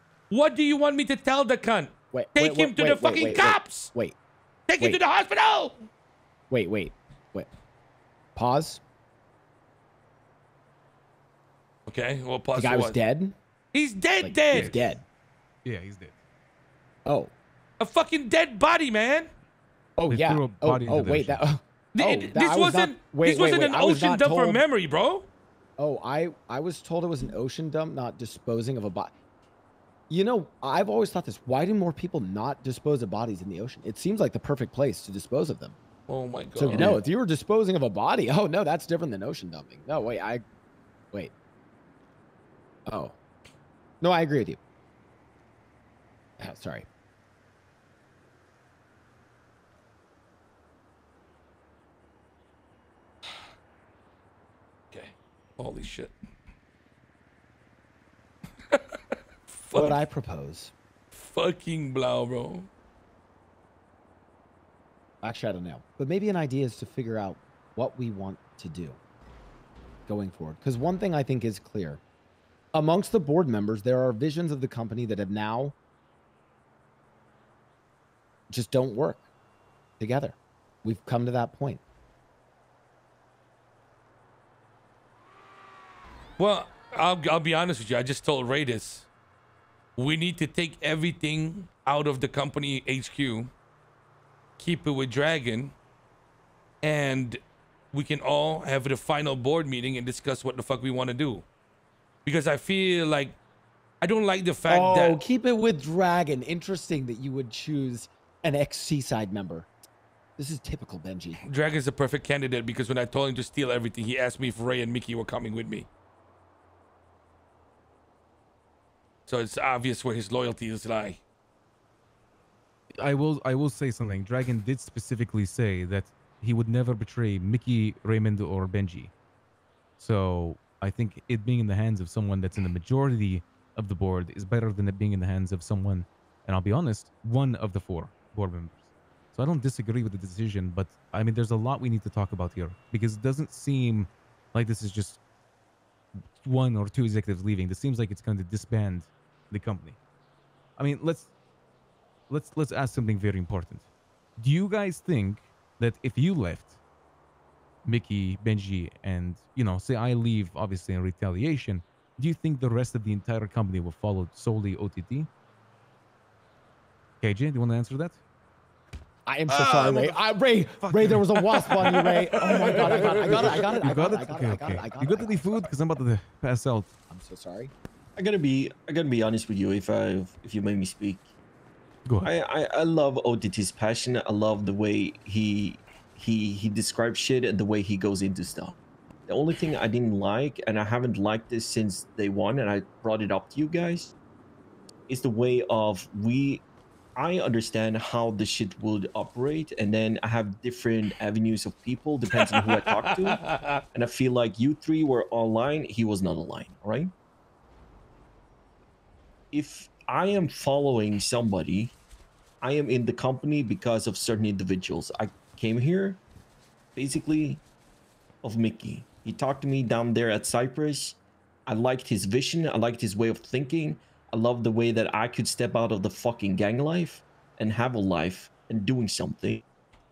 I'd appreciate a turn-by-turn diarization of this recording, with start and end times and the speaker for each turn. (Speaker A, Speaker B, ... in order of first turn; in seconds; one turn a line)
Speaker A: 0.3-3.9
Speaker B: 2.1-4.2
Speaker A: 4.7-5.8
Speaker B: 6.5-7.5
Speaker B: 8.3-8.8
Speaker A: 11.9-13.0
Speaker B: 12.6-13.3
Speaker A: 13.7-14.8
Speaker B: 14.2-15.0
Speaker C: 15.7-16.2
Speaker B: 17.1-17.3
Speaker A: 17.8-19.3
Speaker B: 20.0-24.6
Speaker C: 20.1-21.4
Speaker A: 21.9-25.3
Speaker B: 25.8-29.1
Speaker B: 30.1-35.8
Speaker A: 36.1-36.9
Speaker B: 36.5-40.4
Speaker D: 36.7-37.0
Speaker B: 42.9-43.1
Speaker B: 44.0-44.6
Speaker B: 46.4-46.9
Speaker A: 54.9-56.1
Speaker A: 59.5-60.0
Speaker B: 59.8-60.7
Speaker A: 61.1-62.7
Speaker B: 65.2-69.0
Speaker B: 70.1-72.0
Speaker B: 72.7-75.7
Speaker B: 78.5-79.2
Speaker B: 80.0-81.8
Speaker A: 86.4-89.1
Speaker A: 90.0-93.5
Speaker A: 94.6-95.7
Speaker A: 96.8-97.4
Speaker A: 97.9-101.4
Speaker A: 102.2-103.4
Speaker A: 104.0-105.2
Speaker B: 104.7-109.7
Speaker B: 110.4-111.4
Speaker A: 111.4-115.9
Speaker A: 119.3-121.2
Speaker C: 123.0-129.1
Speaker C: 130.0-145.2
Speaker C: 146.4-150.0
Speaker C: 150.8-151.3
Speaker C: 152.3-156.8
Speaker C: 157.8-165.3
Speaker C: 167.2-168.2
Speaker B: 169.2-175.7
Speaker C: 169.5-170.2
Speaker C: 170.8-172.1
Speaker C: 172.7-176.9
Speaker A: 173.0-173.3
Speaker B: 177.1-177.7
Speaker D: 178.2-181.3
Speaker D: 182.2-188.8
Speaker D: 189.3-194.1
Speaker D: 195.1-196.6
Speaker D: 197.2-207.1
Speaker A: 202.4-203.8
Speaker D: 209.5-211.9
Speaker D: 212.6-216.2
Speaker D: 216.9-217.6
Speaker D: 218.4-229.6